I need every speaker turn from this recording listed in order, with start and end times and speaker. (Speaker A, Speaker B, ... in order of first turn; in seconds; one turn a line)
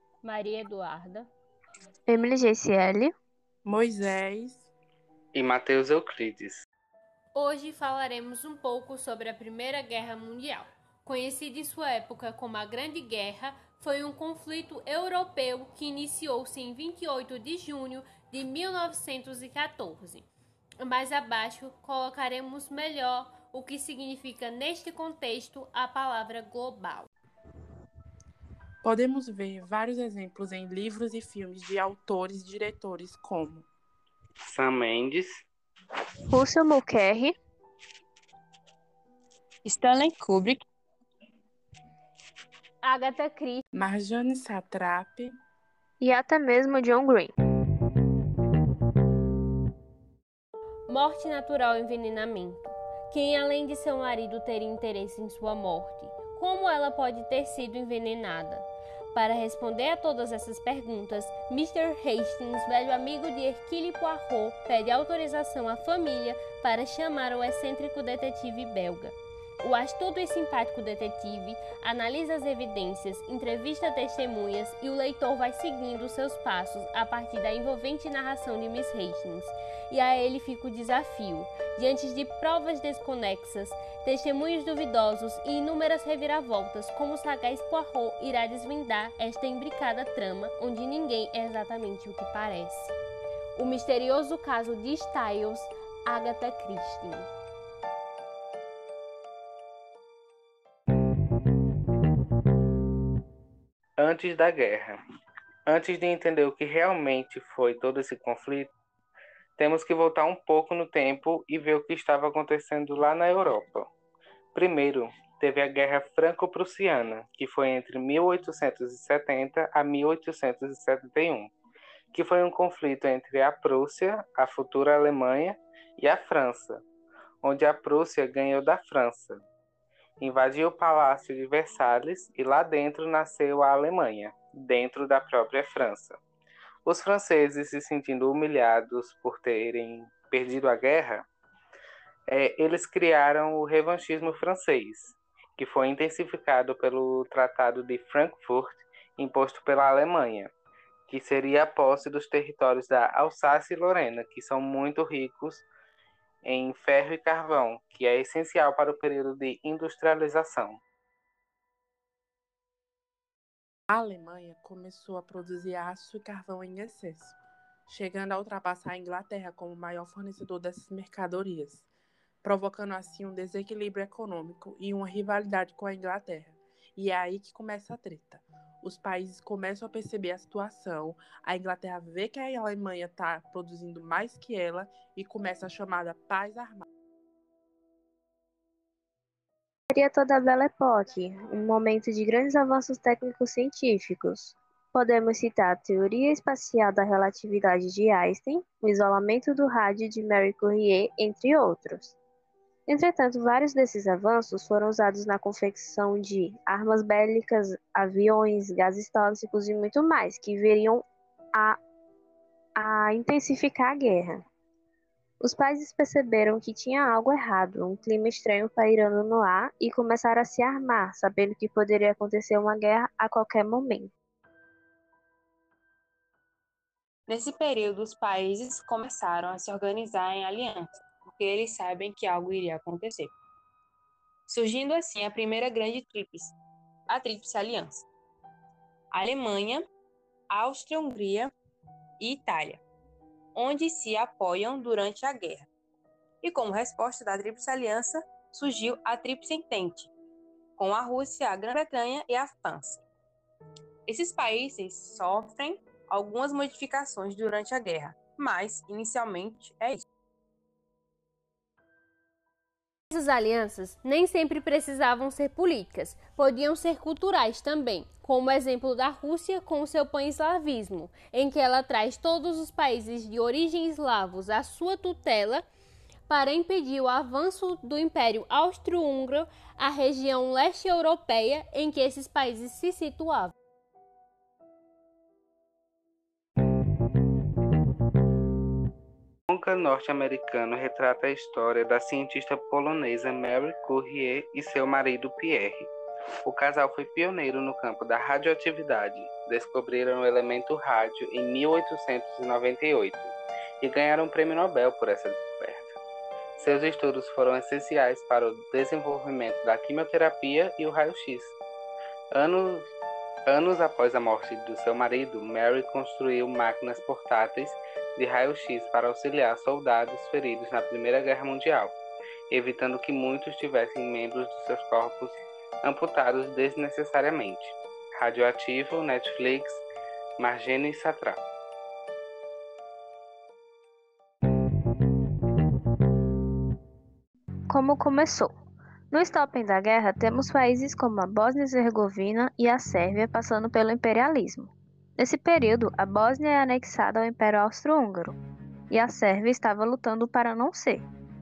Speaker A: 0.2-1.3
Speaker B: 2.1-3.1
Speaker C: 3.6-4.7
Speaker D: 5.3-6.6
Speaker A: 7.3-20.3
Speaker A: 20.8-27.1
Speaker C: 28.8-33.7
Speaker D: 34.5-35.4
Speaker B: 36.3-37.3
Speaker E: 39.6-40.6
Speaker A: 42.8-43.6
Speaker C: 43.7-45.3
Speaker B: 46.0-47.3
Speaker A: 50.9-92.9
Speaker A: 93.5-97.3
Speaker D: 104.0-105.0
Speaker D: 105.7-108.7
Speaker D: 109.6-113.9
Speaker D: 114.5-121.5
Speaker D: 122.1-126.8
Speaker D: 127.4-129.4
Speaker D: 130.2-136.2
Speaker D: 136.8-141.2
Speaker D: 142.3-150.5
Speaker D: 151.1-155.7
Speaker D: 156.4-160.8
Speaker C: 163.9-167.3
Speaker C: 167.9-171.9
Speaker C: 172.4-186.8
Speaker B: 189.9-202.2
Speaker B: 202.9-211.0
Speaker B: 212.8-214.4
Speaker B: 215.4-224.1
Speaker E: 227.3-233.3
Speaker E: 234.5-236.6
Speaker E: 237.1-238.1
Speaker E: 239.1-239.8
Speaker E: 240.5-241.5
Speaker E: 242.2-242.8
Speaker E: 243.5-245.7
Speaker E: 246.4-250.1
Speaker E: 250.8-253.0
Speaker E: 254.1-260.1
Speaker A: 263.1-275.6
Speaker A: 276.3-283.5
Speaker D: 289.5-295.9
Speaker D: 296.4-306.0
Speaker D: 306.6-311.6
Speaker D: 312.3-312.9
Speaker D: 313.5-322.0
Speaker D: 322.5-329.8
Speaker D: 330.4-331.4
Speaker B: 337.7-338.5
Speaker B: 339.1-348.4
Speaker B: 348.9-351.1